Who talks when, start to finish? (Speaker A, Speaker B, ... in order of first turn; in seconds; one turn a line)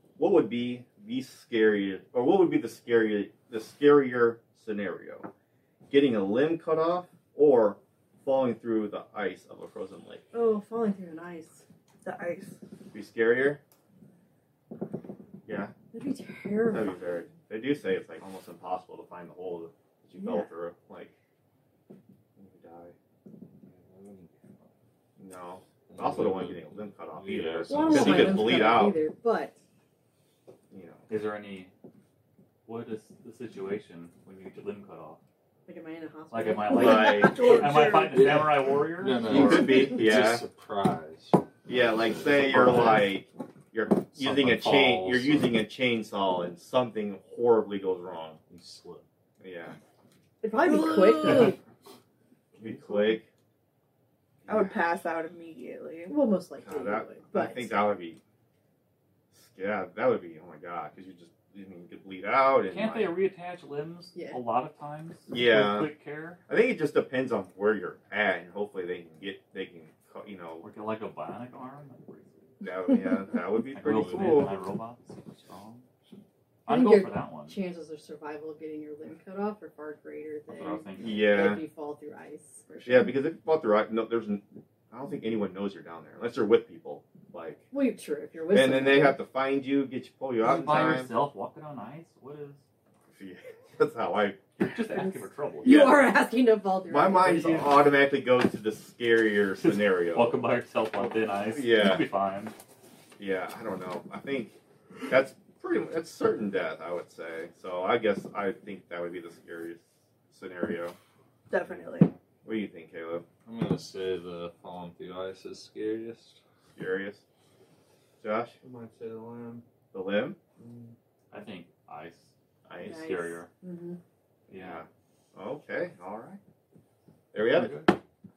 Speaker A: 0.2-5.3
Speaker A: 5.9-10.2
Speaker B: 10.3-11.6
Speaker C: 12.0-12.6
Speaker A: 12.9-13.6
Speaker A: 15.4-15.7
Speaker B: 15.9-17.3
Speaker A: 16.6-21.1
Speaker B: 20.2-20.5
Speaker A: 22.4-22.9
Speaker D: 23.7-24.7
Speaker A: 25.2-29.0
Speaker D: 25.9-28.7
Speaker B: 27.7-29.6
Speaker A: 30.7-31.1
Speaker E: 31.1-31.7
Speaker E: 32.6-35.2
Speaker B: 35.6-37.6
Speaker E: 36.3-39.4
Speaker A: 36.7-37.6
Speaker C: 36.8-38.1
Speaker D: 38.0-43.1
Speaker A: 39.2-40.5
Speaker A: 41.7-48.4
Speaker E: 42.6-43.0
Speaker E: 44.1-45.6
Speaker D: 48.5-49.0
Speaker A: 49.4-49.8
Speaker B: 50.4-51.6
Speaker C: 50.6-51.5
Speaker A: 52.6-53.3
Speaker A: 54.4-54.9
Speaker C: 54.5-56.1
Speaker B: 56.1-57.8
Speaker A: 56.6-58.2
Speaker A: 59.3-63.1
Speaker E: 62.7-66.4
Speaker B: 64.1-64.4
Speaker A: 65.3-65.9
Speaker A: 66.5-70.6
Speaker E: 70.6-72.5
Speaker A: 72.6-74.5
Speaker E: 73.7-75.8
Speaker D: 73.9-74.5
Speaker E: 76.7-77.6
Speaker B: 76.7-83.2
Speaker E: 80.5-81.3
Speaker A: 81.0-81.6
Speaker A: 82.8-87.6
Speaker B: 87.7-89.2
Speaker A: 88.5-91.1
Speaker E: 90.4-92.6
Speaker A: 93.1-94.4
Speaker E: 94.5-96.0
Speaker B: 94.9-97.8
Speaker A: 96.9-100.3
Speaker E: 99.6-102.5
Speaker A: 101.3-102.1
Speaker A: 103.2-104.5
Speaker A: 105.1-111.0
Speaker C: 111.5-112.1
Speaker A: 112.4-113.2
Speaker D: 113.4-116.4
Speaker A: 116.8-117.2
Speaker A: 118.2-118.6
Speaker D: 118.6-119.6
Speaker A: 119.9-120.4
Speaker D: 120.6-121.0
Speaker E: 121.3-123.5
Speaker A: 122.7-123.1
Speaker B: 122.8-124.0
Speaker E: 124.5-124.8
Speaker A: 124.5-126.4
Speaker A: 127.3-127.8
Speaker E: 127.4-127.9